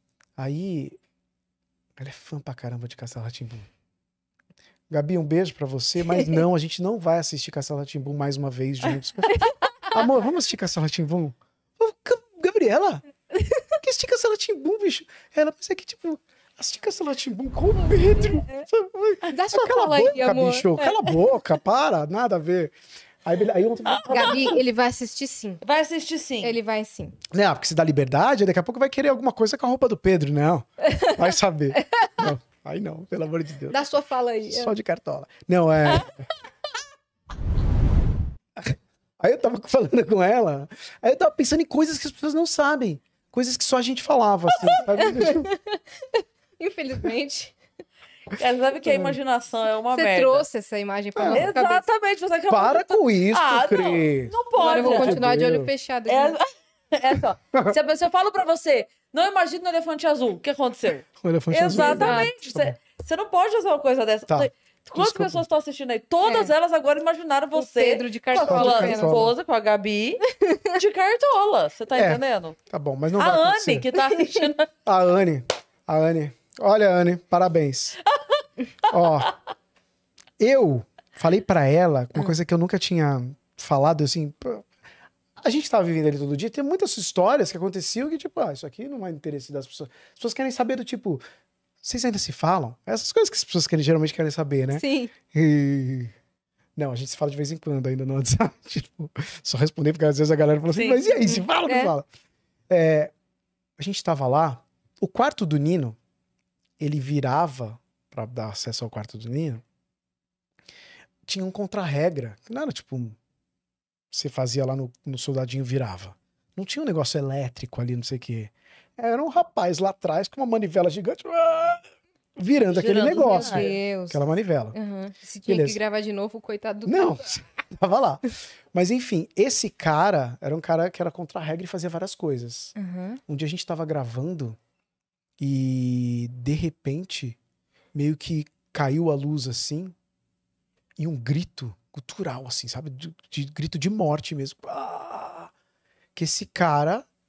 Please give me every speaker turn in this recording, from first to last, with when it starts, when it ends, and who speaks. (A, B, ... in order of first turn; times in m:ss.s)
0:00.4-0:01.0 A
0:02.0-0:03.7 A
0:04.9-0:09.4 A
0:06.1-0:06.4 B
0:09.9-0:13.0 A
0:13.7-0:24.4 A
0:17.8-0:18.6 B
0:19.3-0:21.4 B
0:23.8-0:24.6 C
0:24.1-0:25.6 B
0:25.6-0:26.6 C
0:26.4-0:27.2 B
0:27.3-0:33.8 A
0:30.9-0:32.3 B
0:33.7-0:34.7 B
0:34.4-0:36.3 A
0:38.6-0:45.5 A
0:44.6-0:45.8 B
0:46.6-0:47.6 B
0:48.3-0:50.4 C
0:48.8-0:49.2 A
0:49.9-0:51.8 B
0:51.1-0:51.5 A
0:51.3-0:55.2 C
0:52.5-0:55.7 A
0:54.6-0:56.4 B
0:56.1-1:10.2 C
1:01.2-1:02.8 A
1:01.7-1:02.3 B
1:04.3-1:05.4 A
1:06.2-1:06.5 B
1:07.5-1:09.3 B
1:08.4-1:09.3 A
1:10.3-1:10.8 B
1:10.7-1:12.6 C
1:11.9-1:13.9 A
1:13.1-1:14.7 C
1:14.0-1:14.4 B
1:14.8-1:18.0 A
1:18.1-1:19.3 C
1:18.9-1:19.3 A
1:20.4-1:24.6 A
1:25.4-1:31.2 A
1:31.8-1:36.1 A
1:34.7-1:35.1 B
1:36.8-1:42.1 A
1:40.7-1:41.1 C
1:41.2-1:41.9 B
1:42.7-1:43.1 A
1:43.8-1:46.0 A
1:46.8-1:49.6 A
1:51.2-1:53.2 A
1:54.1-2:01.8 A
2:02.4-2:04.8 A
2:02.6-2:03.7 C
2:03.2-2:07.3 B
2:05.5-2:05.8 A
2:06.8-2:12.7 A
2:12.8-2:13.2 B
2:13.3-2:14.6 A
2:15.4-2:17.4 A
2:17.9-2:19.9 A
2:21.0-2:25.5 A
2:26.1-2:27.0 A